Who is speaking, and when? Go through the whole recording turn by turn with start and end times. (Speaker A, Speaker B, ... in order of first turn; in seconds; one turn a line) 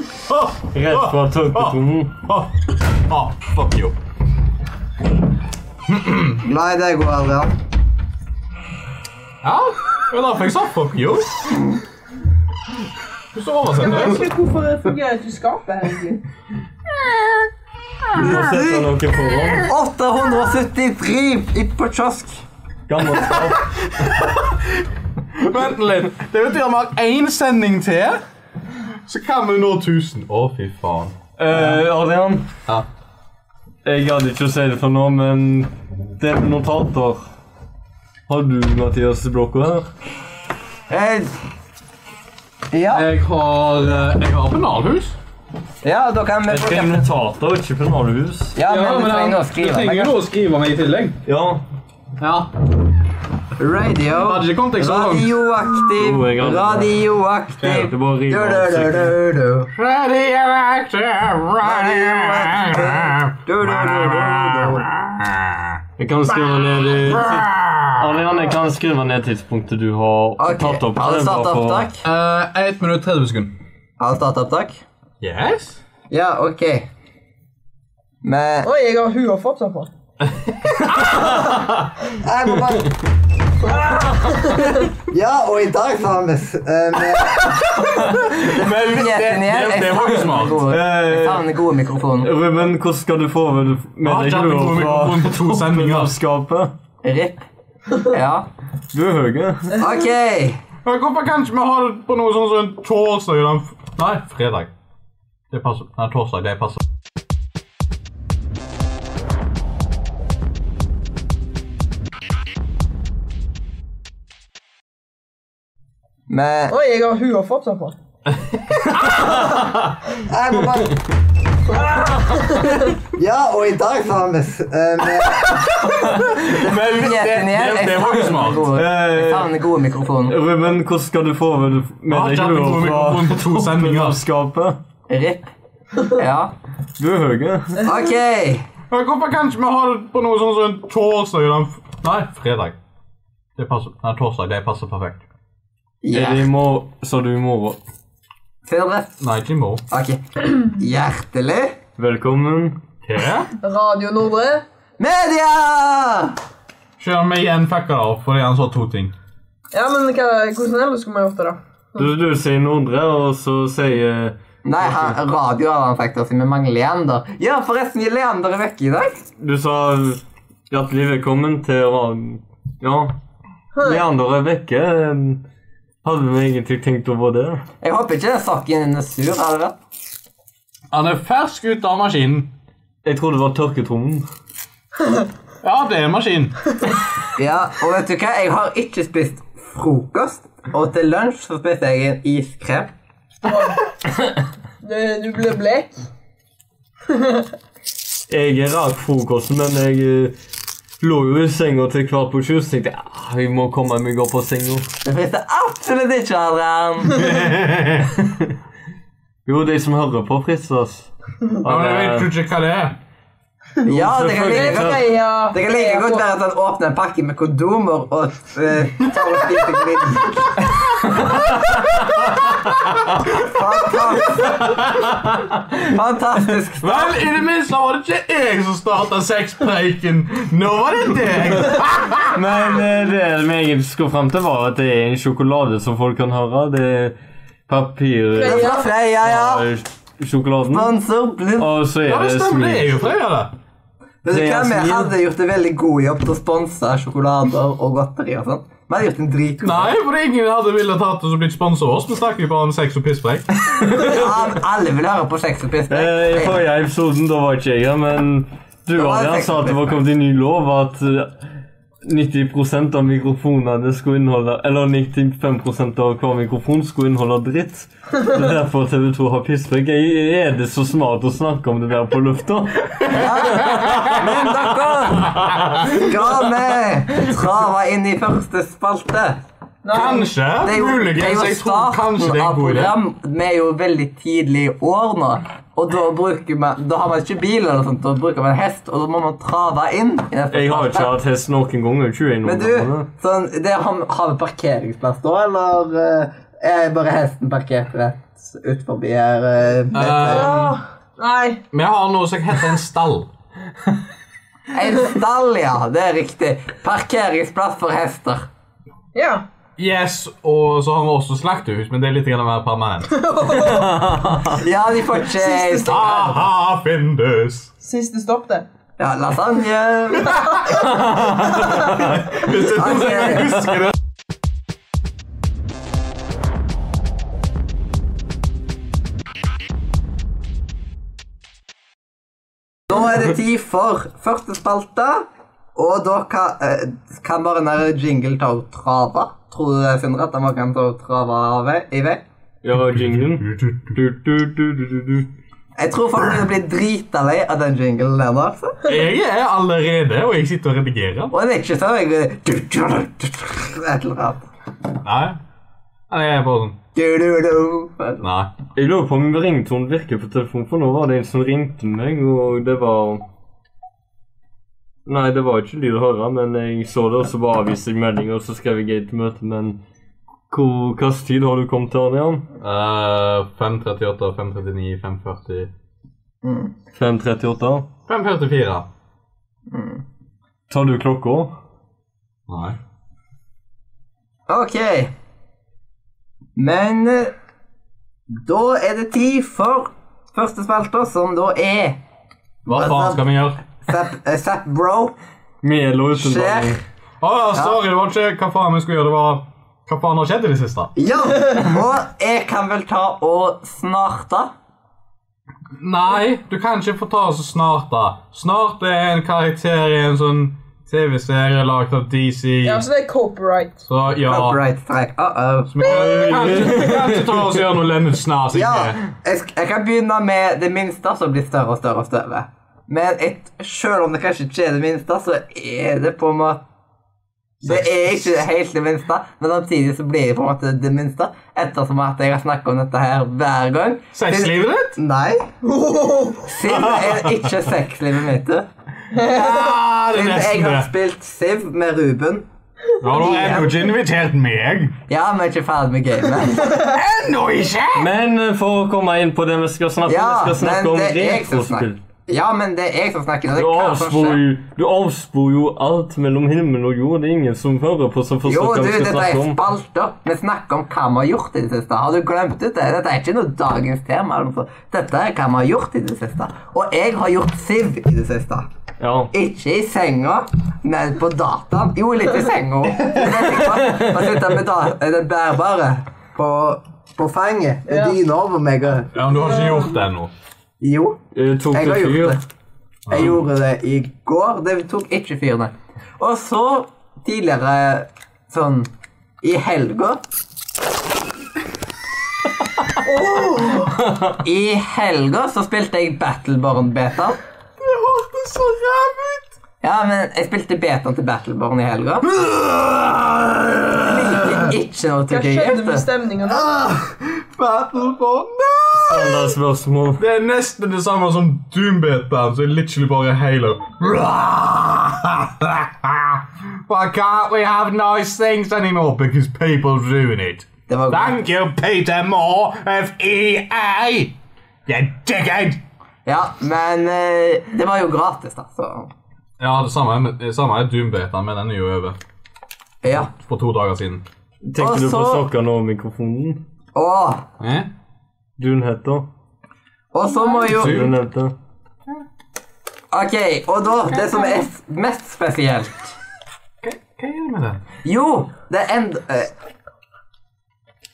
Speaker A: 0.2-2.5
Speaker B: 0.7-2.1
Speaker A: 3.1-3.9
Speaker A: 5.9-6.4
Speaker C: 6.4-7.5
Speaker A: 9.4-11.4
Speaker A: 13.3-14.3
Speaker D: 13.8-16.2
Speaker C: 13.9-14.2
Speaker B: 18.1-19.7
Speaker C: 18.1-18.9
Speaker C: 19.6-22.4
Speaker B: 22.9-23.8
Speaker A: 25.3-28.2
Speaker A: 29.1-31.8
Speaker B: 31.4-32.5
Speaker B: 33.8-37.3
Speaker B: 38.3-39.9
Speaker C: 40.9-41.3
Speaker C: 42.7-43.0
Speaker A: 42.9-45.2
Speaker C: 45.8-47.0
Speaker B: 46.5-48.5
Speaker C: 48.5-50.1
Speaker A: 48.7-51.2
Speaker B: 51.2-51.6
Speaker A: 52.2-52.5
Speaker C: 53.6-59.7
Speaker A: 54.1-55.3
Speaker B: 56.0-56.9
Speaker B: 57.6-59.1
Speaker A: 59.7-65.8
Speaker C: 61.6-64.9
Speaker B: 66.0-71.9
Speaker D: 66.3-66.8
Speaker A: 67.0-68.1
Speaker C: 70.4-72.0
Speaker A: 72.0-73.5
Speaker C: 74.0-74.8
Speaker A: 75.2-75.8
Speaker C: 76.1-76.9
Speaker C: 78.2-78.7
Speaker D: 78.6-79.9
Speaker A: 80.2-81.5
Speaker C: 82.1-82.9
Speaker C: 85.1-92.3
Speaker A: 88.2-90.6
Speaker B: 90.7-91.4
Speaker B: 92.2-96.7
Speaker A: 94.0-96.1
Speaker C: 97.0-97.4
Speaker C: 97.9-98.5
Speaker B: 98.9-99.8
Speaker C: 99.7-100.6
Speaker A: 100.8-104.7
Speaker A: 105.5-106.8
Speaker C: 116.3-116.7
Speaker D: 116.7-118.0
Speaker C: 120.2-121.0
Speaker C: 123.1-125.8
Speaker A: 126.3-128.7
Speaker C: 126.5-130.4
Speaker B: 128.7-129.5
Speaker B: 130.2-134.8
Speaker A: 132.1-134.2
Speaker C: 135.1-136.5
Speaker B: 137.0-137.8
Speaker C: 137.8-138.7
Speaker A: 138.9-142.8
Speaker A: 143.6-145.2
Speaker C: 146.0-146.4
Speaker B: 146.1-147.8
Speaker C: 148.7-149.1
Speaker A: 149.2-149.8
Speaker C: 149.9-151.8
Speaker B: 152.0-152.8
Speaker A: 153.0-153.5
Speaker D: 153.6-154.6
Speaker C: 155.0-156.4
Speaker A: 157.0-159.1
Speaker D: 159.7-162.1
Speaker B: 162.0-165.2
Speaker C: 164.6-169.3
Speaker B: 169.4-173.2
Speaker D: 173.7-174.0
Speaker B: 173.8-175.4
Speaker B: 176.0-177.6
Speaker C: 177.8-179.8
Speaker A: 180.9-182.5
Speaker B: 183.0-184.2
Speaker A: 185.6-186.6
Speaker C: 187.3-192.9
Speaker D: 193.4-193.9
Speaker D: 194.8-195.9
Speaker D: 197.1-197.4
Speaker B: 198.3-200.3
Speaker B: 201.0-204.9
Speaker C: 205.0-207.3
Speaker A: 207.1-208.1
Speaker B: 209.4-212.3
Speaker A: 211.6-213.0
Speaker C: 213.8-220.6
Speaker B: 214.0-215.0
Speaker D: 214.4-216.2
Speaker B: 221.3-221.8
Speaker C: 223.2-224.8
Speaker C: 225.7-227.2
Speaker A: 226.8-232.3
Speaker B: 232.3-237.2
Speaker B: 237.7-240.9
Speaker C: 238.3-239.6
Speaker D: 238.4-238.9
Speaker C: 240.7-241.8
Speaker B: 241.6-242.9
Speaker A: 242.1-243.5
Speaker C: 244.2-249.9
Speaker B: 244.3-245.1
Speaker A: 249.6-253.4
Speaker B: 253.7-254.3
Speaker C: 253.9-256.6
Speaker B: 255.9-261.3
Speaker C: 258.9-259.8
Speaker B: 262.0-276.1
Speaker C: 273.1-279.4
Speaker A: 273.7-274.1
Speaker D: 279.8-280.3
Speaker A: 279.9-282.9
Speaker C: 280.6-291.1
Speaker B: 290.5-293.1
Speaker C: 292.4-300.6
Speaker A: 299.9-300.8
Speaker D: 300.2-301.6
Speaker A: 301.7-303.3
Speaker C: 304.7-308.5
Speaker D: 309.1-309.4
Speaker A: 309.8-313.2
Speaker D: 313.1-314.2
Speaker B: 313.7-314.6
Speaker C: 314.5-316.4
Speaker D: 315.2-316.0
Speaker A: 315.8-317.7
Speaker D: 317.8-318.6
Speaker C: 319.0-320.8
Speaker D: 320.3-320.9
Speaker B: 321.1-321.5
Speaker C: 321.5-323.6
Speaker A: 321.5-323.9
Speaker C: 332.9-342.2
Speaker B: 342.6-345.3
Speaker A: 342.7-343.9
Speaker C: 345.8-348.8
Speaker A: 348.8-351.3
Speaker C: 351.3-354.4
Speaker A: 355.0-355.4
Speaker A: 356.1-356.8
Speaker C: 356.9-358.2
Speaker A: 358.2-358.5
Speaker B: 358.7-363.2
Speaker B: 365.1-369.8
Speaker B: 370.5-372.4
Speaker A: 372.6-375.7
Speaker C: 376.4-376.7
Speaker B: 376.9-377.9
Speaker A: 378.1-378.9
Speaker C: 379.7-380.0
Speaker B: 380.7-381.5
Speaker A: 382.5-382.8
Speaker C: 384.5-385.1
Speaker C: 386.6-387.3
Speaker C: 388.4-392.0
Speaker A: 392.6-393.6
Speaker C: 392.7-393.2
Speaker C: 393.8-395.1
Speaker B: 395.6-396.8
Speaker C: 396.2-396.8
Speaker A: 397.2-400.9
Speaker C: 400.9-404.5
Speaker D: 401.3-401.7
Speaker A: 405.8-412.8
Speaker D: 412.6-413.8
Speaker A: 413.9-414.6
Speaker C: 414.3-416.3
Speaker A: 415.7-419.0
Speaker B: 415.8-417.2
Speaker D: 416.0-417.2
Speaker C: 418.5-426.6
Speaker C: 427.6-435.5
Speaker A: 427.6-428.1
Speaker A: 434.1-434.9
Speaker D: 435.6-436.5
Speaker C: 436.4-438.7
Speaker A: 436.6-437.5
Speaker D: 439.1-439.7
Speaker A: 439.3-440.9
Speaker C: 440.1-442.4
Speaker A: 443.0-444.9
Speaker C: 443.0-443.8
Speaker C: 445.1-446.9
Speaker A: 446.8-448.1
Speaker B: 447.9-452.0
Speaker C: 450.1-454.4
Speaker B: 453.5-459.6
Speaker C: 458.4-468.7
Speaker B: 469.0-469.3
Speaker C: 469.3-479.1
Speaker B: 473.5-474.2
Speaker D: 477.9-478.1
Speaker A: 479.1-480.3
Speaker C: 480.8-481.2
Speaker B: 481.3-482.4
Speaker C: 481.7-482.4
Speaker A: 483.1-483.4
Speaker C: 483.1-488.9
Speaker C: 489.4-490.2
Speaker D: 493.0-494.0
Speaker C: 494.4-497.4
Speaker A: 497.8-499.4
Speaker C: 499.8-502.3
Speaker A: 502.2-504.7
Speaker C: 504.0-506.1
Speaker D: 505.3-506.7
Speaker A: 506.4-509.5
Speaker B: 508.9-510.2
Speaker A: 510.2-524.4
Speaker C: 520.9-521.4
Speaker A: 524.9-525.8
Speaker C: 526.2-529.1
Speaker A: 529.6-532.1
Speaker C: 533.0-533.3
Speaker A: 533.1-534.2
Speaker B: 534.6-536.6
Speaker C: 534.8-535.4
Speaker C: 536.9-537.5
Speaker A: 537.6-537.9
Speaker B: 538.6-539.3
Speaker C: 540.1-541.1
Speaker B: 540.6-541.5
Speaker A: 540.7-541.1
Speaker C: 543.1-546.1
Speaker A: 546.8-547.8
Speaker C: 548.0-549.5